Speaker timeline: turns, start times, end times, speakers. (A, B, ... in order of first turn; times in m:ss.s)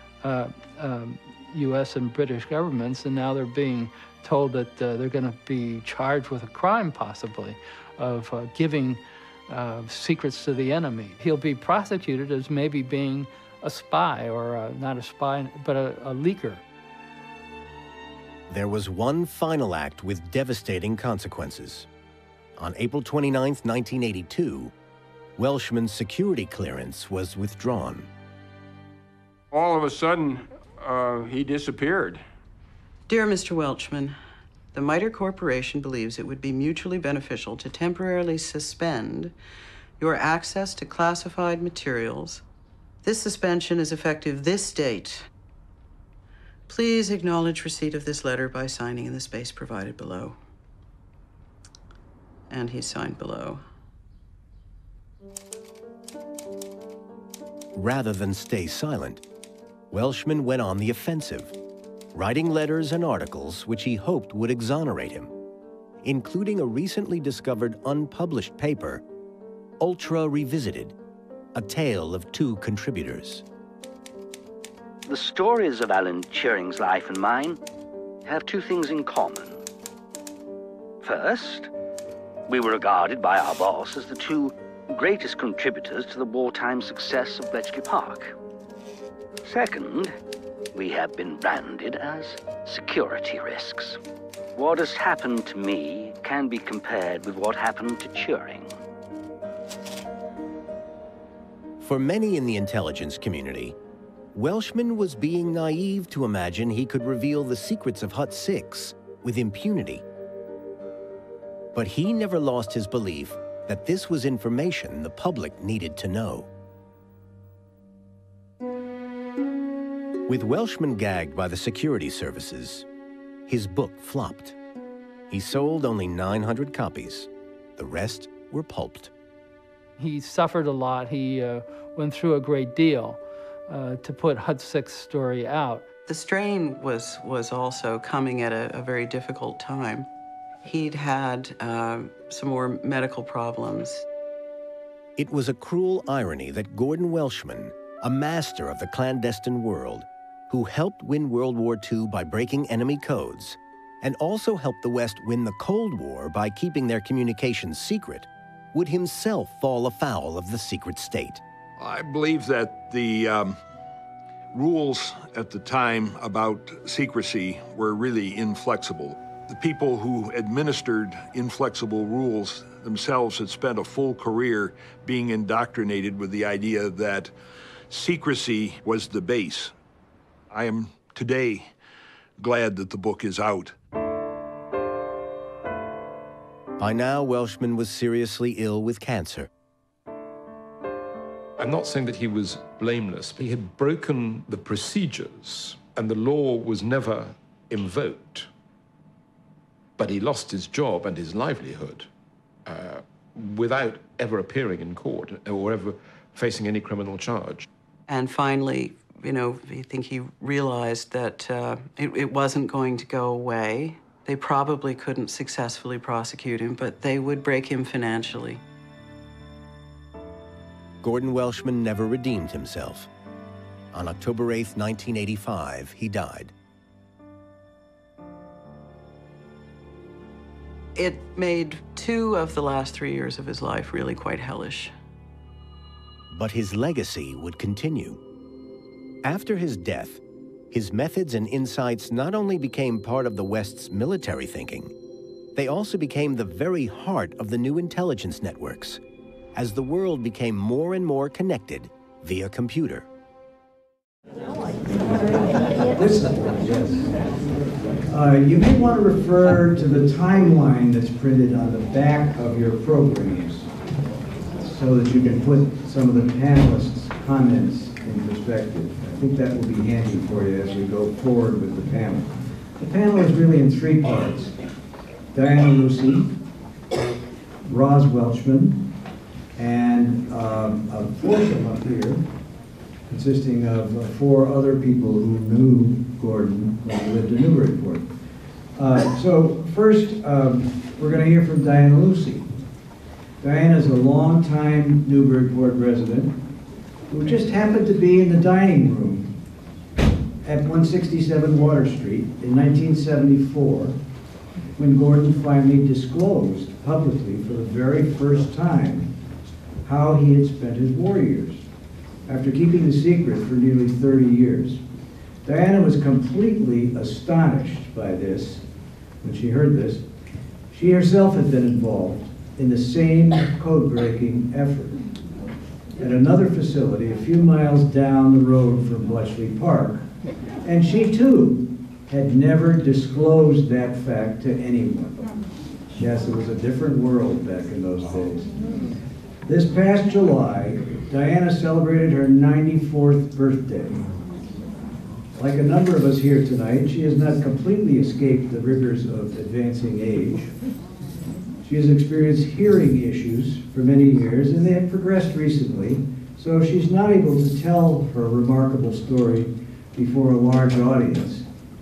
0:00.2-0:16.6 A
0:18.5-0:21.9 B
0:22.6-0:24.7 B
0:25.4-0:28.1 B
0:29.5-0:32.2 C
0:33.1-0:34.2 D
0:34.7-0:39.3 D
0:40.0-0:42.4 D
0:43.0-0:45.3 D
0:46.7-0:50.4 D
0:52.5-0:53.6 D
0:57.7-0:59.2 B
0:59.9-1:01.5 B
1:02.1-1:05.3 B
1:06.0-1:09.0 B
1:09.8-1:11.0 B
1:11.5-1:13.4 B
1:15.1-1:17.6 E
1:18.2-1:19.6 E
1:21.0-1:21.7 E
1:22.5-1:28.4 E
1:29.4-1:30.1 E
1:30.7-1:34.0 E
1:34.6-1:38.8 E
1:41.8-1:43.8 B
1:44.3-1:50.0 B
1:51.7-1:56.5 B
2:00.3-2:02.9 B
2:03.5-2:04.6 B
2:05.3-2:09.1 B
2:10.0-2:15.9 A
2:16.1-2:20.1 D
2:20.6-2:24.0 D
2:25.2-2:41.4 B
2:41.8-2:43.6 F
2:44.5-2:57.3 F
2:57.9-2:59.7 F
3:00.5-3:01.7 F
3:02.4-3:03.8 F
3:06.8-3:09.5 B
3:11.6-3:18.5 G
3:20.0-3:22.1 G
3:22.7-3:27.7 G
3:28.1-3:38.6 D
3:41.0-3:43.1 B
3:43.9-3:46.5 B
3:51.0-3:54.9 D
3:56.3-3:58.2 B
3:59.2-4:00.2 B
4:00.7-4:04.9 B
4:05.6-4:09.0 B
4:09.5-4:13.1 B
4:15.9-4:17.1 H
4:18.1-4:23.7 H
4:24.6-4:34.6 H
4:35.3-4:36.3 H
4:37.6-4:38.8 H
4:39.6-4:42.2 H
4:43.1-4:48.1 H
4:48.8-4:52.5 H
4:53.4-4:56.4 H
4:57.1-4:59.3 H
5:00.4-5:04.0 H
5:04.8-5:09.1 H
5:09.8-5:11.6 H
5:12.3-5:14.8 H
5:15.4-5:18.6 H
5:19.2-5:20.0 H
5:20.7-5:25.0 H
5:26.0-5:30.0 H
5:30.6-5:35.2 H
5:35.9-5:38.5 H
5:39.4-5:44.0 H
5:45.4-5:50.5 H
5:51.6-6:01.4 H